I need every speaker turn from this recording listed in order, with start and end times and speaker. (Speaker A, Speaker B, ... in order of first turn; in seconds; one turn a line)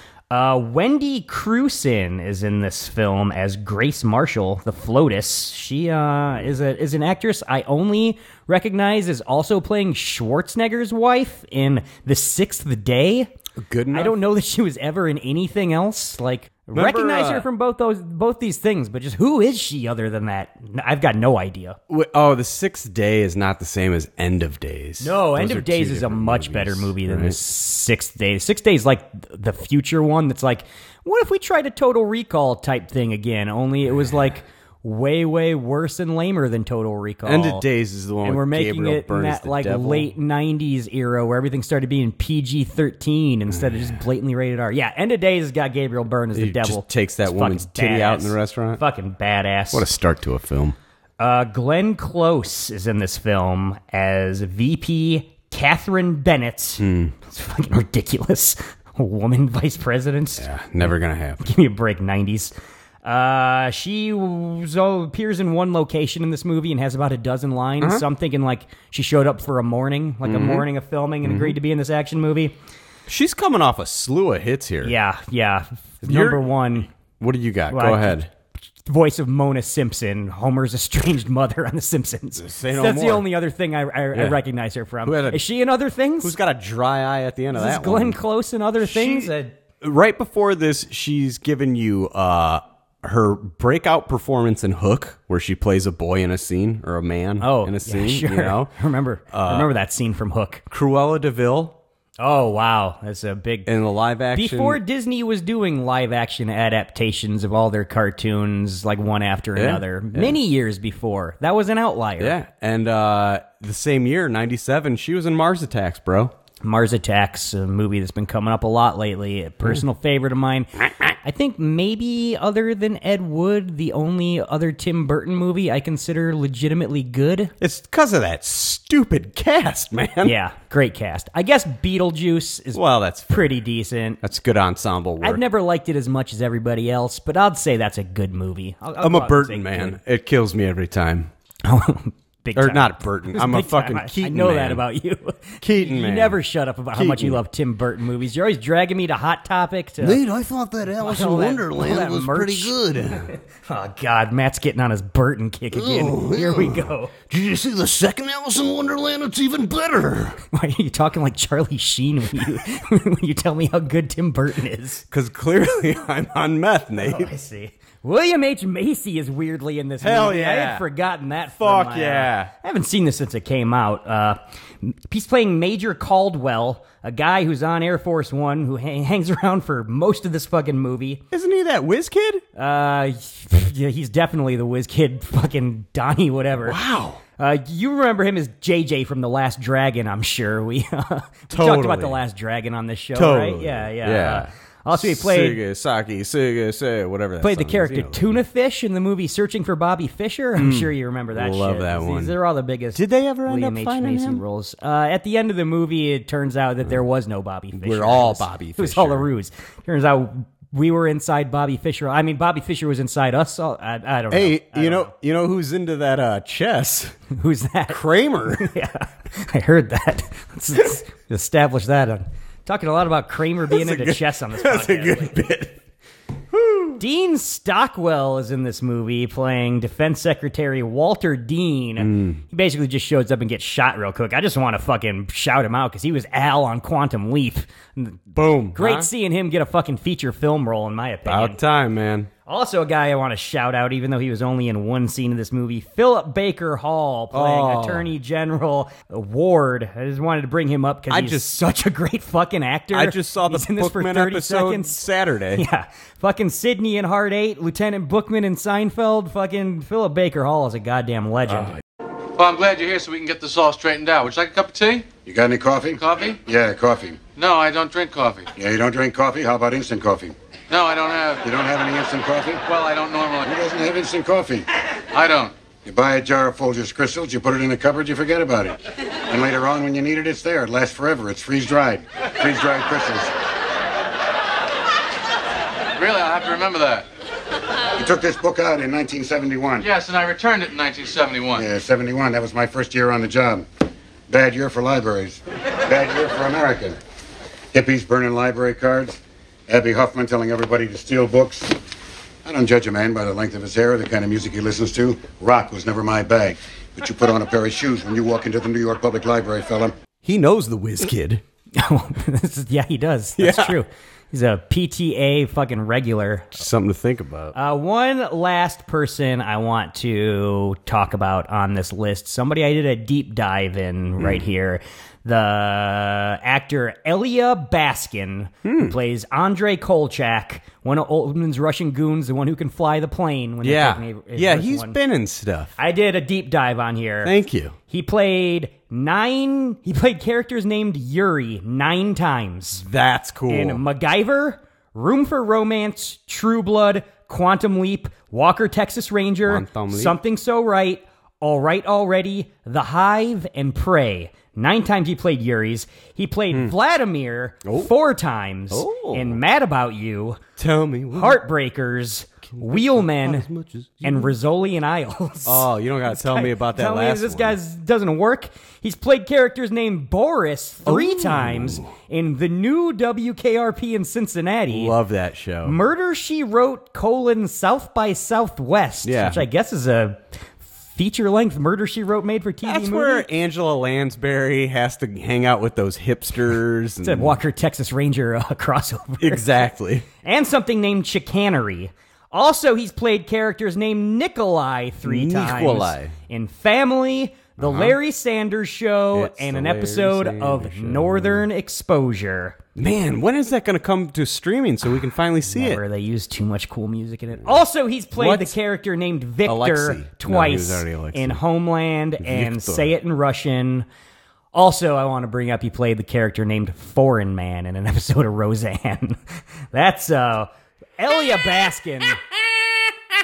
Speaker A: 0.3-13.3
Speaker B: 13.6-14.2
Speaker A: 13.9-21.8
Speaker B: 16.7-17.5
Speaker B: 21.9-27.4
Speaker A: 25.0-37.6
Speaker B: 37.2-40.1
Speaker A: 38.2-49.9
Speaker B: 43.5-44.0
Speaker B: 46.3-48.8
Speaker B: 49.7-50.8
Speaker A: 51.2-60.5
Speaker B: 56.8-57.1
Speaker B: 60.4-61.4
Speaker A: 61.4-72.5
Speaker B: 70.2-70.7
Speaker B: 71.2-71.6
Speaker B: 73.1-74.9
Speaker A: 74.8-76.9
Speaker B: 76.0-76.5
Speaker B: 77.2-78.3
Speaker A: 77.7-78.2
Speaker A: 78.9-86.3
Speaker B: 82.3-83.3
Speaker B: 84.1-84.4
Speaker B: 85.0-85.4
Speaker B: 86.2-88.2
Speaker A: 87.5-89.5
Speaker B: 88.8-98.7
Speaker A: 97.4-100.6
Speaker B: 99.3-99.7
Speaker B: 100.7-101.8
Speaker A: 102.2-103.7
Speaker B: 103.7-104.8
Speaker A: 104.3-112.3
Speaker B: 109.5-110.4
Speaker B: 112.2-116.3
Speaker A: 116.6-120.7
Speaker A: 121.2-127.5
Speaker B: 127.6-130.3
Speaker A: 130.2-134.2
Speaker B: 132.7-133.4
Speaker B: 134.2-135.4
Speaker A: 135.2-140.0
Speaker B: 139.0-141.3
Speaker A: 141.6-150.2
Speaker B: 142.6-144.8
Speaker B: 145.6-146.4
Speaker B: 146.9-147.4
Speaker B: 150.0-153.3
Speaker A: 151.0-157.1
Speaker B: 155.7-160.4
Speaker A: 160.5-165.0
Speaker B: 165.1-167.3
Speaker A: 167.0-181.2
Speaker B: 170.0-170.8
Speaker B: 171.6-172.5
Speaker B: 181.3-182.4
Speaker A: 182.6-186.8
Speaker B: 186.6-187.2
Speaker A: 187.4-195.6
Speaker B: 191.5-192.2
Speaker B: 193.1-198.4
Speaker A: 197.4-215.1
Speaker B: 200.6-202.3
Speaker B: 202.9-204.4
Speaker B: 207.7-209.3
Speaker B: 214.3-217.1
Speaker A: 217.3-225.3
Speaker B: 217.9-218.7
Speaker B: 223.7-225.8
Speaker B: 226.5-227.0
Speaker A: 227.0-241.6
Speaker B: 232.0-232.4
Speaker B: 238.3-239.1
Speaker B: 241.2-242.3
Speaker A: 242.4-255.0
Speaker B: 247.3-248.1
Speaker B: 251.1-251.5
Speaker B: 252.9-255.6
Speaker A: 255.5-261.7
Speaker B: 261.5-261.8
Speaker C: 262.4-265.1
Speaker D: 265.2-267.2
Speaker C: 266.0-266.4
Speaker C: 267.4-268.5
Speaker D: 268.6-270.3
Speaker C: 270.7-271.4
Speaker D: 271.4-272.6
Speaker C: 272.7-273.5
Speaker D: 273.4-274.6
Speaker C: 275.1-275.5
Speaker D: 275.8-278.8
Speaker D: 279.3-283.3
Speaker C: 285.9-287.1
Speaker D: 288.0-289.9
Speaker C: 289.8-291.6
Speaker D: 291.5-293.6
Speaker D: 294.3-297.0
Speaker D: 297.7-301.7
Speaker D: 302.4-309.9
Speaker B: 310.2-311.4
Speaker A: 311.7-316.6
Speaker B: 313.4-313.8
Speaker B: 316.6-317.5
Speaker A: 317.5-335.0
Speaker B: 324.2-324.4
Speaker B: 328.6-328.9
Speaker B: 333.6-335.7
Speaker A: 335.8-337.3
Speaker B: 337.2-337.8
Speaker A: 337.9-342.8
Speaker B: 342.8-343.8
Speaker A: 343.5-360.4
Speaker B: 349.4-350.2
Speaker B: 357.6-357.9
Speaker B: 358.7-359.4
Speaker B: 360.6-361.4
Speaker A: 361.1-363.5
Speaker B: 362.5-364.3
Speaker A: 364.0-374.9
Speaker B: 365.4-367.6
Speaker B: 370.8-371.9
Speaker B: 374.7-375.8
Speaker A: 375.6-383.3
Speaker B: 379.0-379.4
Speaker B: 382.6-387.4
Speaker A: 387.0-389.5
Speaker B: 389.2-390.1
Speaker A: 390.2-402.6
Speaker B: 395.0-396.1
Speaker B: 397.6-398.0
Speaker B: 399.1-401.5
Speaker B: 402.8-405.8
Speaker A: 405.4-413.9
Speaker B: 408.1-408.5
Speaker B: 409.4-411.4
Speaker B: 412.2-412.9
Speaker A: 414.5-419.2
Speaker A: 419.7-422.2